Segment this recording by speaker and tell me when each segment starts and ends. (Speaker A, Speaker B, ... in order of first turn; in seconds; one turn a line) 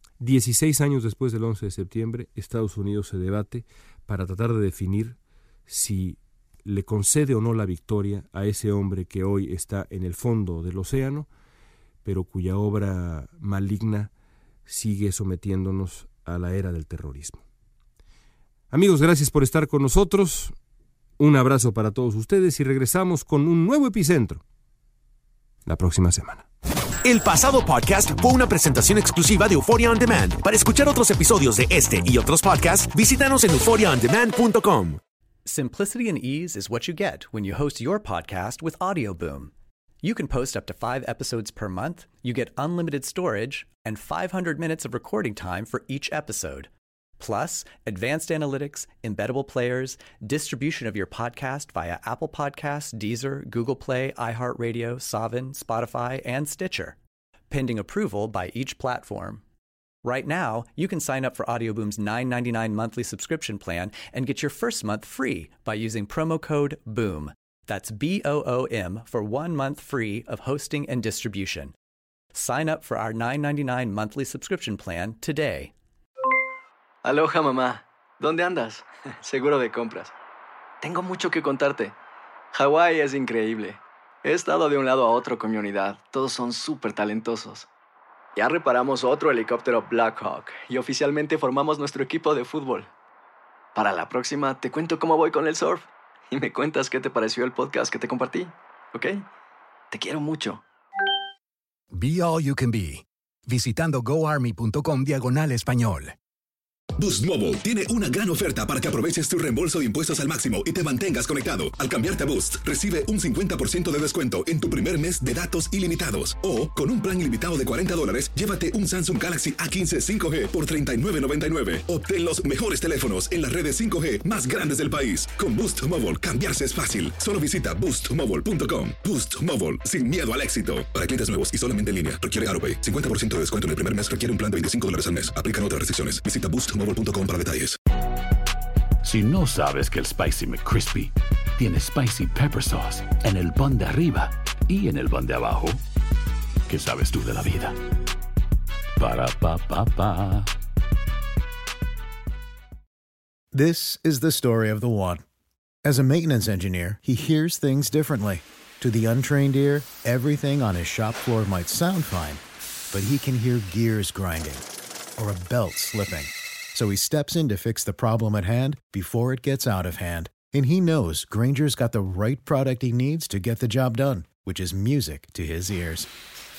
Speaker A: 0.2-11.3
Speaker A: 12.0-14.1
Speaker A: 14.7-17.4
Speaker A: 18.7-20.5
Speaker A: 21.2-24.4
Speaker A: 25.7-26.5
Speaker B: 27.0-35.0
Speaker C: 35.5-57.0
Speaker C: 57.5-59.4
Speaker C: 60.0-71.7
Speaker C: 72.3-75.7
Speaker D: 77.0-80.1
Speaker D: 80.8-82.0
Speaker D: 82.5-87.7
Speaker D: 88.3-92.9
Speaker D: 93.8-99.2
Speaker D: 99.9-100.6
Speaker E: 101.9-106.2
Speaker F: 107.0-137.8
Speaker G: 139.0-145.8
Speaker G: 146.7-147.8
Speaker G: 149.0-150.5
Speaker H: 153.5-155.2
Speaker H: 155.8-162.4
Speaker H: 162.9-164.6
Speaker H: 165.2-176.1